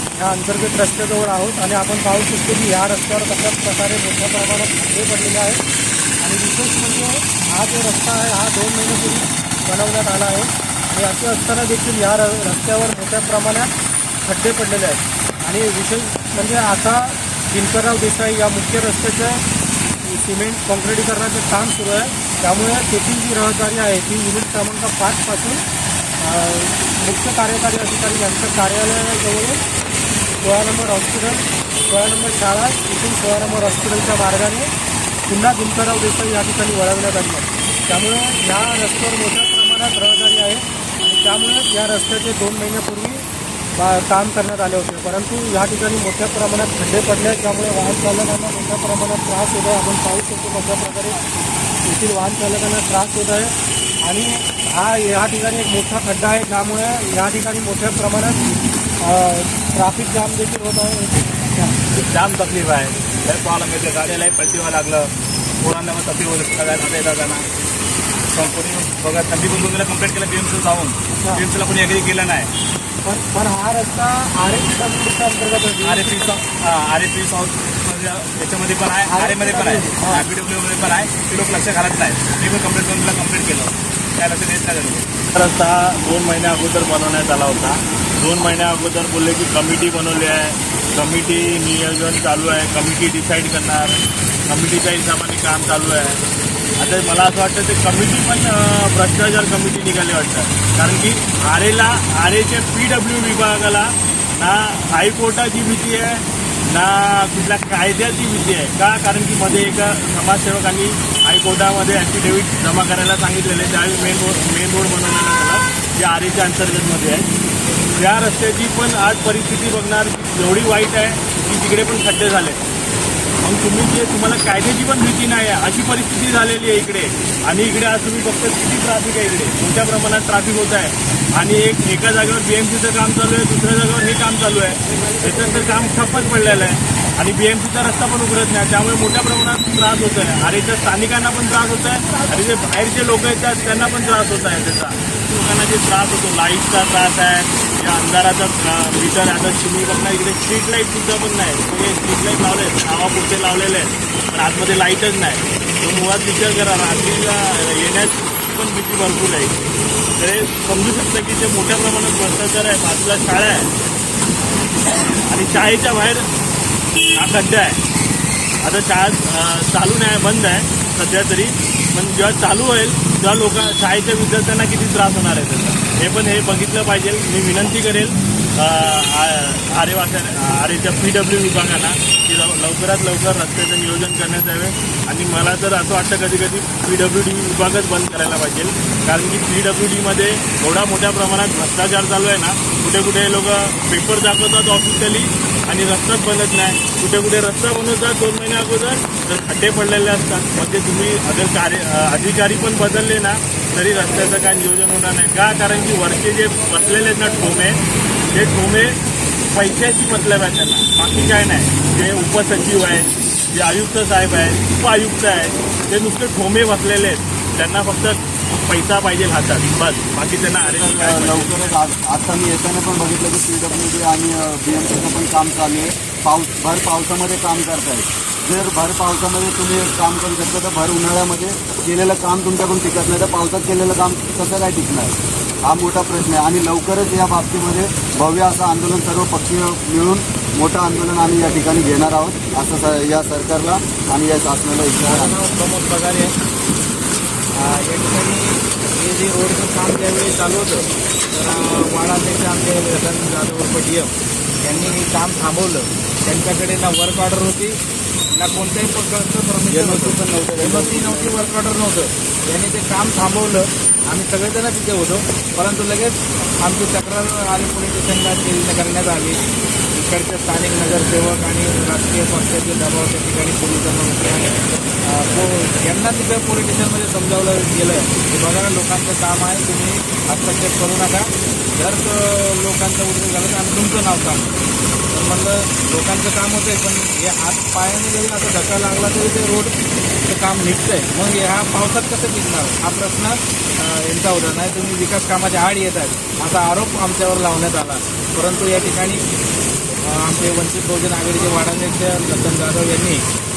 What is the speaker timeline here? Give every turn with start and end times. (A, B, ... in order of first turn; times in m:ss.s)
0:00.2-0:05.6 A
0:06.2-0:13.7 A
0:14.2-0:19.4 A
0:20.0-0:25.6 A
0:26.2-0:29.6 A
0:30.4-0:34.7 A
0:35.3-0:43.2 A
0:43.8-0:51.2 A
0:51.8-1:01.7 A
1:02.1-1:02.6 B
1:03.2-1:05.1 C
1:05.6-1:07.4 C
1:08.3-1:10.9 C
1:11.2-1:11.5 A
1:11.6-1:12.4 C
1:13.0-1:16.4 A
1:16.1-1:25.0 C
1:19.0-1:20.3 A
1:25.3-1:34.0 B
1:34.5-1:36.2 B
1:36.8-1:57.3 B
1:58.0-2:02.6 B
2:03.4-2:39.5 B
2:40.2-2:43.7 B
2:44.9-2:46.2 B
2:47.2-2:47.8 B
2:48.6-3:27.8 B
3:28.3-3:29.0 B
3:29.5-3:41.7 B
3:40.7-3:55.1 D
3:55.7-4:05.4 D
4:05.0-4:06.3 E
4:07.5-4:17.8 E
4:18.4-4:29.4 E
4:19.9-4:21.3 D
4:29.9-4:44.6 E
4:45.1-4:59.2 E
5:00.0-5:03.3 E